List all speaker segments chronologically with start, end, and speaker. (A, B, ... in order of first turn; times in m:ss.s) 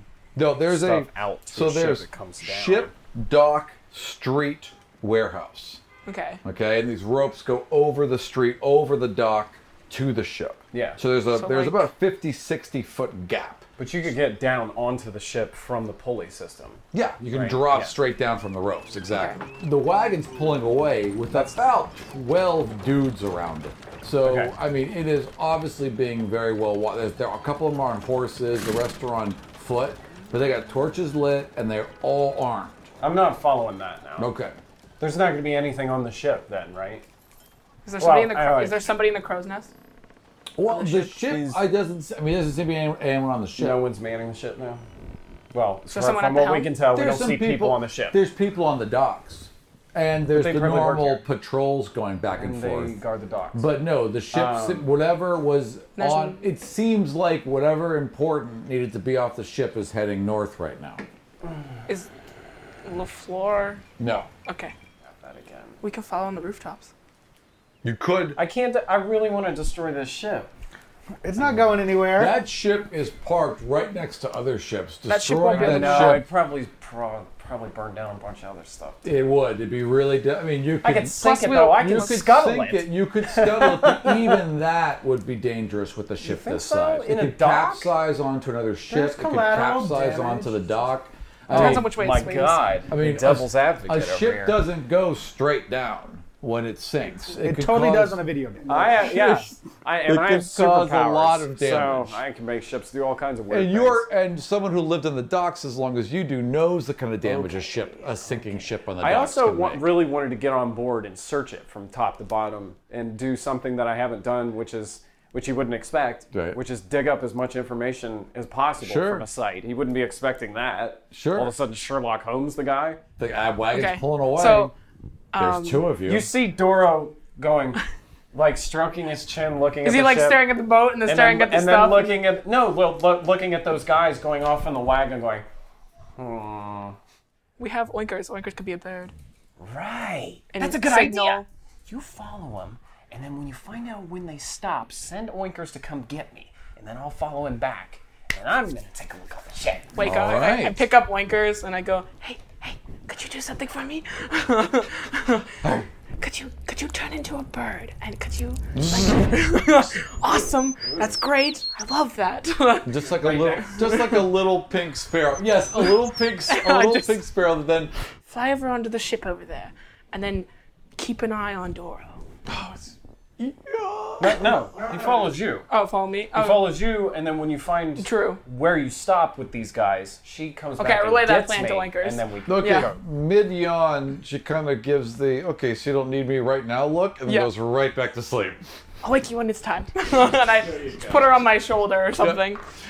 0:00.3-0:05.8 A
0:00.7-0:02.9 B
0:06.0-0:06.4 C
0:06.4-0:13.6 A
0:10.7-0:11.0 B
0:11.3-0:11.9 C
0:13.8-0:17.9 B
0:16.9-0:32.9 A
0:19.1-0:19.4 C
0:24.2-0:24.5 B
0:33.0-0:34.3 B
0:34.2-0:34.6 A
0:35.0-0:37.0 B
0:37.8-0:39.7 C
0:38.0-0:38.8 B
0:40.6-0:43.8 A
0:40.7-0:41.0 C
0:41.0-0:41.6 B
0:43.6-0:44.8 B
0:45.5-0:48.2 B
0:45.9-0:46.7 C
0:46.9-0:53.0 A
0:50.3-0:51.2 B
0:52.3-0:53.7 B
0:53.5-1:01.0 A
0:54.3-0:54.9 B
0:56.0-0:56.4 C
1:01.4-1:01.8 B
1:02.8-1:03.8 C
1:04.0-1:04.3 A
1:04.4-1:04.7 C
1:05.1-1:05.8 B
1:05.8-1:06.9 C
1:07.8-1:08.4 A
1:08.4-1:10.5 B
1:11.2-1:12.4 D
1:12.1-1:16.3 A
1:15.1-1:16.2 C
1:15.5-1:19.0 B
1:19.0-1:31.9 A
1:20.8-1:24.4 B
1:21.2-1:22.1 C
1:26.2-1:27.9 B
1:28.9-1:30.8 D
1:31.5-1:32.8 C
1:31.5-1:34.6 B
1:32.9-1:38.2 A
1:37.4-1:39.1 D
1:38.7-1:44.1 B
1:39.1-1:42.2 A
1:43.5-1:49.9 A
1:47.2-2:03.0 B
1:56.3-1:56.6 A
1:58.8-1:59.2 A
2:01.1-2:01.5 A
2:03.2-2:04.7 A
2:03.7-2:04.7 C
2:05.3-2:05.9 C
2:05.4-2:06.3 A
2:06.0-2:10.5 B
2:09.8-2:12.2 C
2:11.0-2:15.4 B
2:16.2-2:17.0 B
2:17.6-2:19.1 C
2:19.6-2:30.0 B
2:20.5-2:21.4 C
2:29.9-2:35.6 C
2:30.0-2:30.8 A
2:35.6-2:35.9 A
2:36.2-2:43.0 C
2:38.7-2:39.5 A
2:40.8-2:41.1 B
2:42.8-2:47.9 A
2:43.0-2:43.8 B
2:43.6-2:44.3 C
2:46.5-2:47.2 C
2:48.2-2:52.2 C
2:52.5-2:54.6 A
2:54.2-2:55.7 B
2:54.9-2:55.2 D
2:55.7-2:56.8 C
2:56.3-3:03.0 B
2:58.0-2:58.4 C
3:00.8-3:02.9 C
3:02.4-3:08.6 A
3:07.3-3:07.5 C
3:09.0-3:12.6 C
3:10.7-3:11.4 B
3:12.2-3:12.4 A